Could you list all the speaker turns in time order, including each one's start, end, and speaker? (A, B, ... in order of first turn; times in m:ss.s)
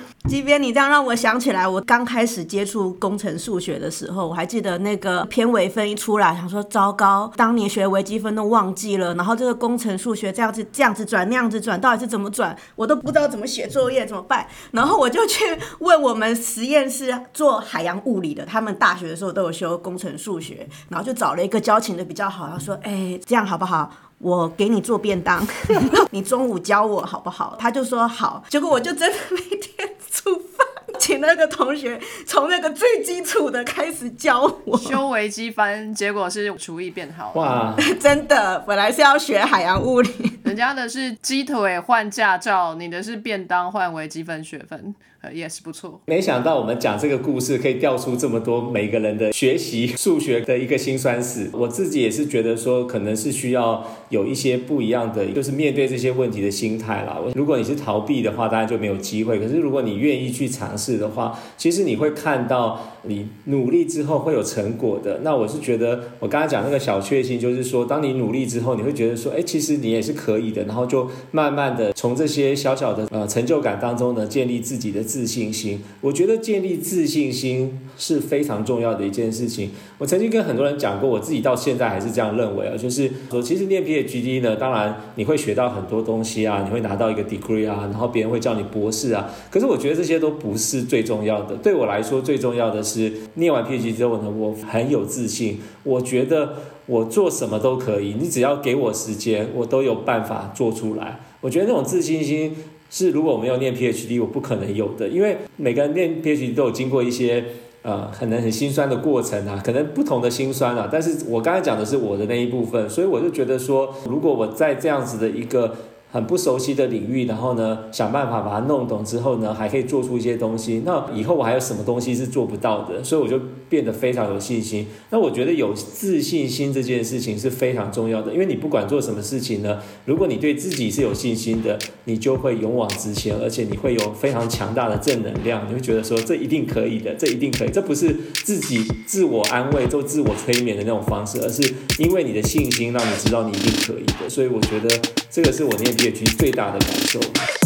0:00.3-0:35.0 A
0:34.7-0:37.6 B
0:37.3-0:37.9 C
0:37.8-0:40.4 A
0:40.4-0:46.0 B
0:46.1-2:27.5 C